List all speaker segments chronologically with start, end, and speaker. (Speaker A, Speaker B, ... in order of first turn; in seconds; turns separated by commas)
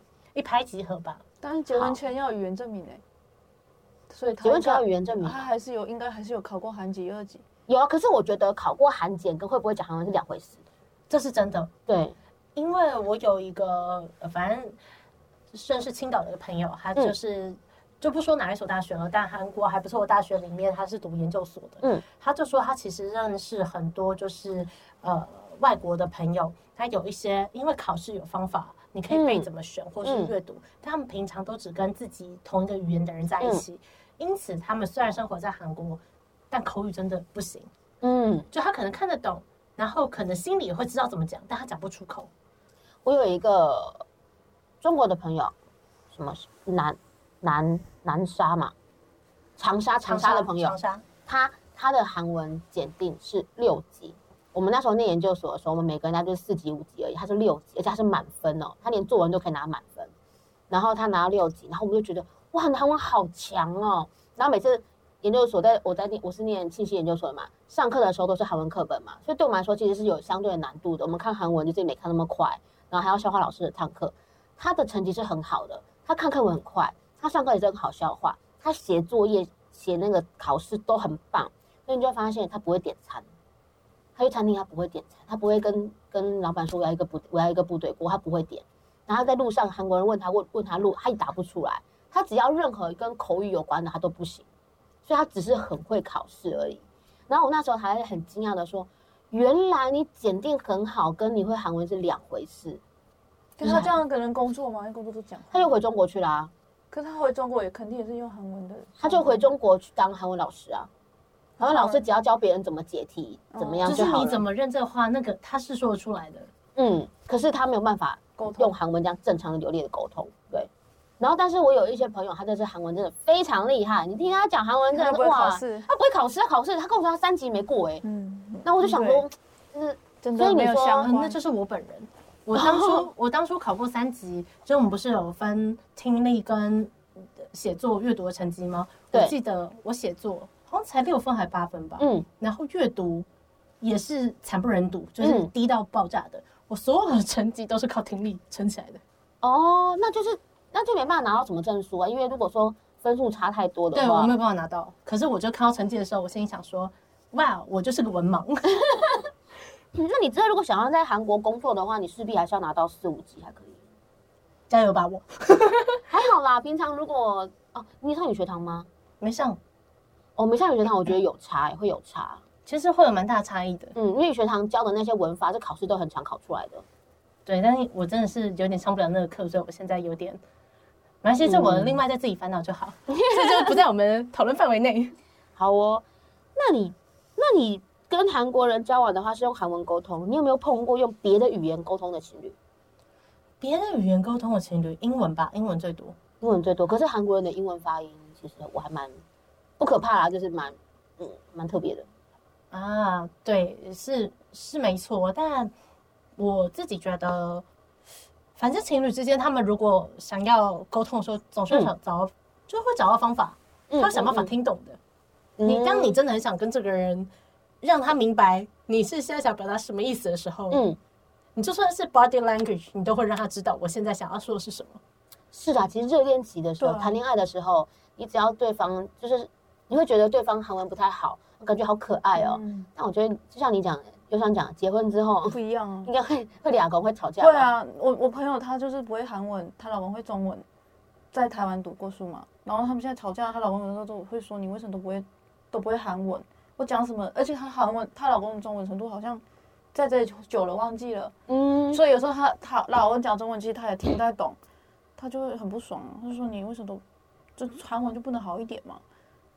Speaker A: 0.3-1.2, Speaker B: 1.4-3.0, Speaker C: 1.7-2.0, Speaker B: 4.1-7.4, Speaker C: 4.4-5.5, Speaker C: 7.7-10.6, Speaker A: 11.1-11.7, Speaker C: 11.9-12.2, Speaker A: 12.6-14.8, Speaker A: 15.5-37.7, Speaker C: 29.1-29.5, Speaker C: 30.0-30.3, Speaker C: 38.0-38.5, Speaker A: 38.5-42.3, Speaker C: 43.0-44.0, Speaker C: 44.8-45.5, Speaker C: 46.1-48.7, Speaker C: 49.6-60.1, Speaker A: 50.0-51.0, Speaker C: 60.7-83.2, Speaker C: 84.2-94.5, Speaker C: 95.0-102.8, Speaker B: 103.6-105.7, Speaker C: 103.6-103.9, Speaker C: 105.5-106.5, Speaker B: 106.9-109.5, Speaker C: 109.0-110.9, Speaker B: 111.6-112.0, Speaker C: 111.6-114.4, Speaker B: 113.5-114.2, Speaker A: 113.9-116.5, Speaker C: 116.8-120.7, Speaker B: 118.4-118.7, Speaker C: 121.2-128.0, Speaker B: 124.9-125.9, Speaker B: 128.0-129.2, Speaker C: 128.6-131.1, Speaker B: 130.2-131.4, Speaker A: 131.0-143.3, Speaker C: 132.6-133.1, Speaker C: 142.0-142.2, Speaker A: 143.8-149.0, Speaker C: 145.2-145.5, Speaker C: 149.4-154.3, Speaker A: 153.9-159.0, Speaker C: 158.8-159.1, Speaker C: 159.9-163.8, Speaker A: 164.7-166.0, Speaker C: 166.1-168.9, Speaker A: 169.2-169.6, Speaker C: 170.4-172.4, Speaker A: 172.7-173.9, Speaker C: 173.9-176.8, Speaker A: 177.5-180.4, Speaker A: 181.2-185.2, Speaker C: 181.4-182.0, Speaker C: 183.1-183.8, Speaker C: 185.6-186.0, Speaker C: 186.6-192.6, Speaker A: 193.6-196.2, Speaker C: 196.4-199.2, Speaker C: 199.8-202.1, Speaker A: 202.7-205.7, Speaker A: 206.4-207.7, Speaker A: 208.6-215.0, Speaker C: 213.9-214.5, Speaker C: 215.6-216.2, Speaker A: 215.6-217.3, Speaker A: 217.8-220.8, Speaker C: 220.7-221.0, Speaker A: 221.6-225.0, Speaker C: 225.5-237.7, Speaker B: 226.8-227.2, Speaker B: 232.4-232.9, Speaker B: 235.5-236.1, Speaker B: 237.4-240.7, Speaker B: 241.3-249.4, Speaker B: 249.9-251.3, Speaker C: 251.5-252.0, Speaker B: 251.9-254.6, Speaker B: 255.2-257.0, Speaker B: 257.6-259.0